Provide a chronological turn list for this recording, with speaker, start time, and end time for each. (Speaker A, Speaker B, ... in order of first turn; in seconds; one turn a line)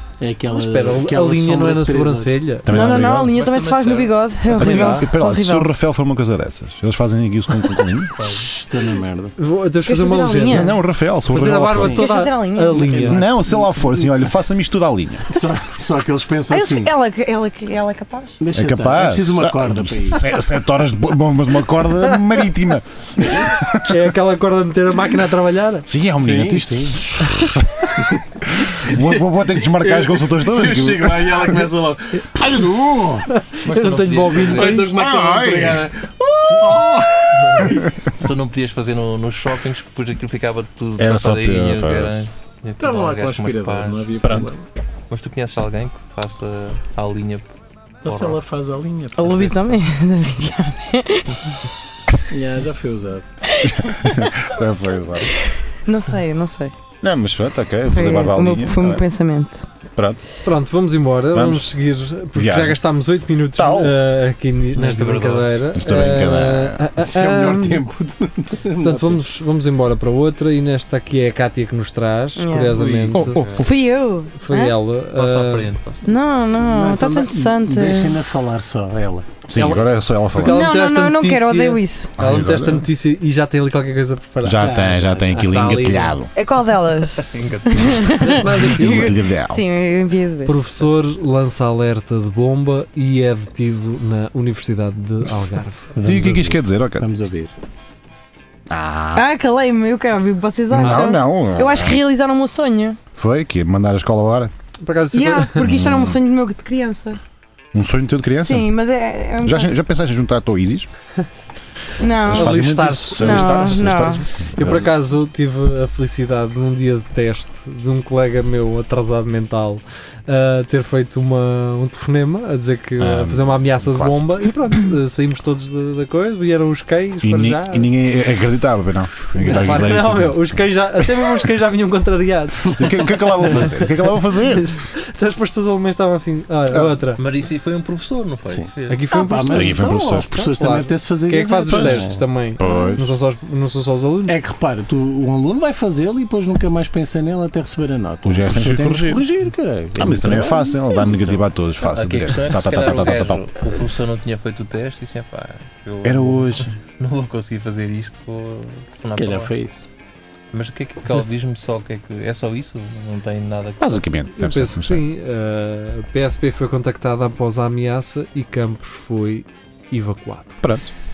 Speaker A: 0.2-2.6
Speaker B: 0.5-3.0
Speaker C: 2.6-3.3
Speaker D: 2.7-5.7
Speaker E: 3.2-4.2
Speaker C: 4.5-8.1
Speaker B: 4.6-5.1
Speaker E: 8.1-8.5
Speaker A: 8.3-9.3
Speaker B: 9.4-13.2
Speaker D: 9.8-10.7
Speaker C: 10.4-12.0
Speaker A: 11.7-12.1
Speaker D: 11.8-12.8
Speaker A: 12.7-14.1
Speaker C: 13.1-15.2
Speaker A: 15.3-16.9
Speaker D: 16.5-18.4
Speaker A: 18.4-20.2
Speaker C: 18.5-24.0
Speaker B: 22.0-22.4
Speaker B: 23.2-25.9
Speaker C: 25.9-28.0
Speaker A: 26.2-27.1
Speaker A: 28.0-33.3
Speaker C: 28.8-31.5
Speaker C: 32.4-32.7
Speaker B: 33.3-34.9
Speaker E: 33.6-34.8
Speaker A: 34.5-37.0
Speaker C: 34.9-35.8
Speaker C: 36.6-37.8
Speaker E: 37.4-44.1
Speaker C: 41.0-42.2
Speaker A: 42.8-44.7
Speaker C: 44.2-44.5
Speaker E: 45.1-47.5
Speaker E: 48.0-48.4
Speaker A: 48.0-49.5
Speaker D: 49.1-51.4
Speaker A: 52.3-53.2
Speaker D: 53.5-54.4
Speaker C: 53.6-55.3
Speaker D: 55.9-56.7
Speaker C: 57.0-59.0
Speaker D: 57.9-59.6
Speaker C: 60.0-60.2
Speaker B: 60.4-67.8
Speaker C: 61.3-61.8
Speaker C: 62.3-62.8
Speaker C: 63.5-64.0
Speaker E: 64.8-65.6
Speaker C: 65.7-66.8
Speaker A: 67.0-69.2
Speaker B: 68.8-73.4
Speaker D: 72.3-72.8
Speaker E: 72.7-73.7
Speaker C: 73.1-73.7
Speaker D: 73.6-74.8
Speaker B: 74.3-75.7
Speaker E: 75.1-76.2
Speaker D: 76.0-78.2
Speaker A: 76.6-79.3
Speaker C: 79.5-80.6
Speaker B: 79.5-86.2
Speaker D: 80.4-82.1
Speaker C: 82.2-82.9
Speaker C: 84.4-86.3
Speaker A: 84.6-85.4
Speaker D: 86.3-90.7
Speaker E: 87.2-88.9
Speaker A: 88.5-89.1
Speaker C: 88.7-89.6
Speaker B: 90.5-95.9
Speaker C: 96.0-97.0
Speaker A: 96.0-97.5
Speaker C: 98.7-99.3
Speaker D: 99.1-103.0
Speaker C: 100.7-102.0
Speaker C: 103.1-104.5
Speaker B: 104.8-105.7
Speaker D: 105.1-107.2
Speaker C: 105.6-106.2
Speaker C: 107.7-108.7
Speaker D: 108.4-109.7
Speaker C: 109.4-110.9
Speaker D: 112.0-112.5
Speaker C: 112.0-114.9
Speaker B: 112.3-127.9
Speaker D: 113.1-114.2
Speaker C: 123.0-124.3
Speaker C: 127.2-131.1
Speaker B: 129.3-137.2
Speaker A: 129.4-129.9
Speaker C: 132.7-134.7
Speaker C: 136.7-136.9
Speaker E: 137.2-139.1
Speaker A: 138.5-142.7
Speaker B: 138.9-144.4
Speaker C: 139.5-140.3
Speaker C: 141.7-142.0
Speaker C: 142.6-143.0
Speaker A: 144.3-150.9
Speaker C: 148.2-149.2
Speaker C: 149.9-153.4
Speaker E: 151.1-159.5
Speaker C: 156.0-156.7
Speaker A: 159.1-159.8
Speaker E: 160.5-164.0
Speaker C: 163.8-165.1
Speaker B: 164.3-170.6
Speaker C: 170.6-170.9